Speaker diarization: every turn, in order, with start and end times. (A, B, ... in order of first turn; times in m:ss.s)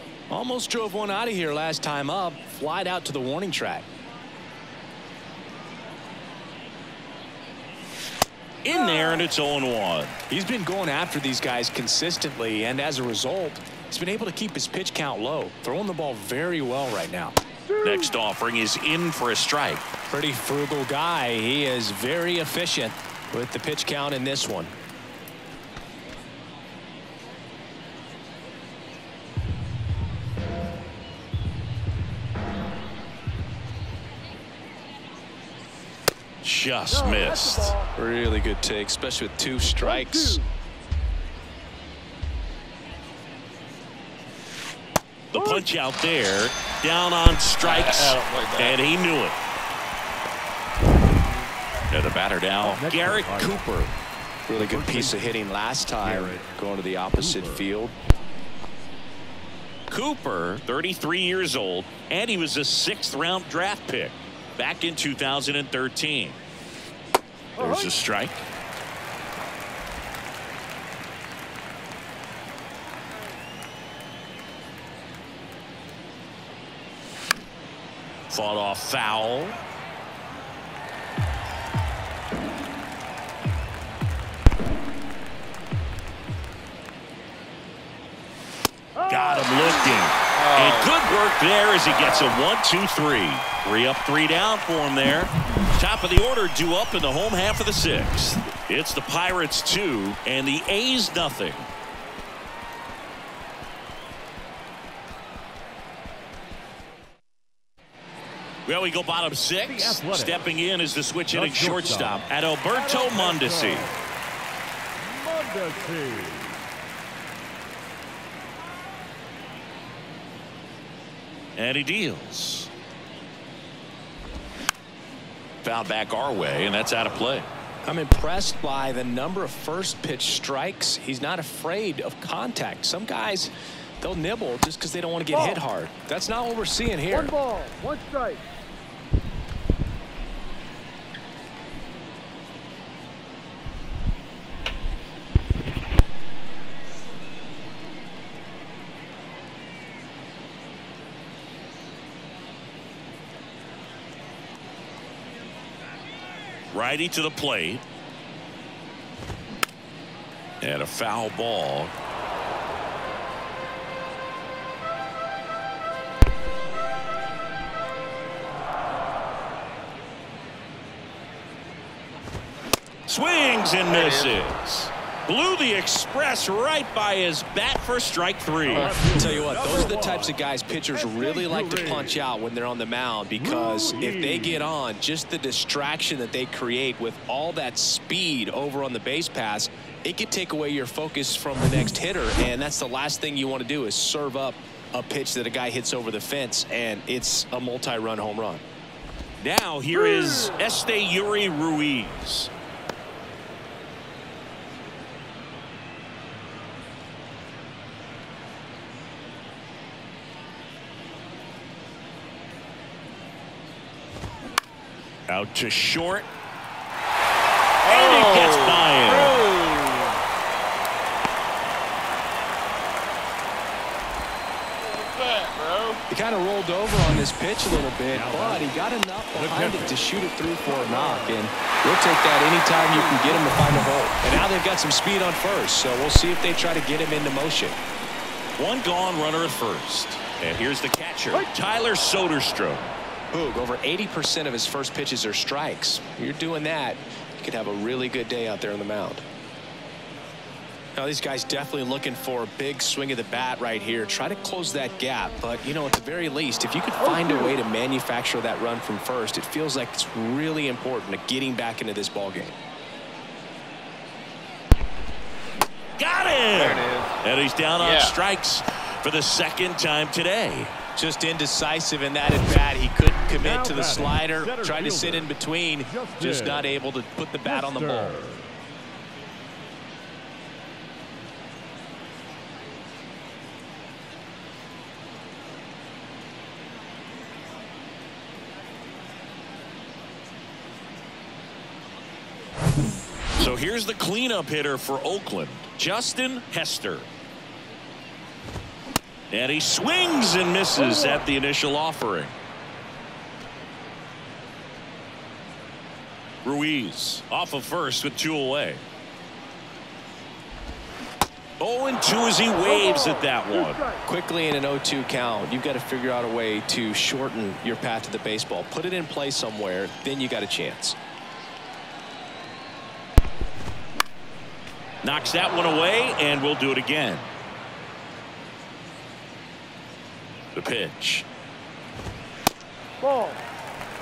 0:00.3-0:03.9 A
0:08.6-0:10.2 B
0:08.8-0:09.2 C
0:10.3-0:17.4 A
0:17.7-0:18.2 C
0:17.8-0:19.8 B
0:20.1-0:24.7 A
0:36.4-0:37.8 B
0:36.9-0:37.9 C
0:38.0-0:40.4 A
0:39.8-0:40.5 C
0:45.3-0:49.4 B
0:45.3-0:45.6 C
0:47.6-0:48.8 D
0:51.9-0:53.9 B
0:52.6-0:53.7 E
0:54.5-0:57.9 A
0:54.5-0:55.4 E
0:56.0-0:56.5 E
0:57.2-0:57.7 E
0:59.9-1:06.4 B
1:07.6-1:08.4 B
1:07.6-1:07.9 C
1:18.3-1:19.6 B
1:29.0-1:30.0 C
1:29.1-1:41.7 B
1:30.3-1:31.0 D
1:31.8-1:32.4 D
1:48.7-1:53.9 B
1:49.6-1:50.5 E
1:51.3-1:54.0 E
1:55.0-1:56.6 E
2:01.6-2:02.7 B
2:05.6-2:07.5 B
2:07.8-2:17.3 A
2:15.3-2:15.6 C
2:17.1-2:18.4 C
2:36.7-2:37.8 B
2:40.6-2:41.9 B
2:53.1-2:59.0 B
2:53.9-2:54.4 D
2:58.6-3:00.4 E
2:59.1-3:18.6 A
3:00.9-3:02.2 E
3:03.4-3:04.7 E
3:19.4-3:22.5 B
3:20.0-3:20.6 C
3:35.3-3:36.3 B
3:37.8-3:40.2 D
3:37.8-3:39.4 B
3:44.8-3:46.0 D
3:46.1-3:57.8 A
3:48.1-3:48.7 E
3:49.3-3:50.0 E
3:50.9-3:51.2 E
3:58.6-4:02.9 B
4:03.3-4:09.2 A
4:11.0-4:22.6 A
4:17.0-4:17.6 C
4:26.0-4:30.7 B
4:26.5-4:27.2 D
4:27.8-4:28.2 D
4:31.0-4:38.2 A
4:33.4-4:36.8 E
4:37.4-4:38.5 E
4:53.4-4:57.1 B
4:59.3-5:02.4 B
5:00.8-5:01.2 C
5:06.4-5:08.8 B
5:11.6-5:13.8 B
5:12.6-5:14.0 C
5:14.1-5:21.0 A
5:25.0-5:27.3 B
5:30.6-5:31.3 B
5:33.0-5:33.4 C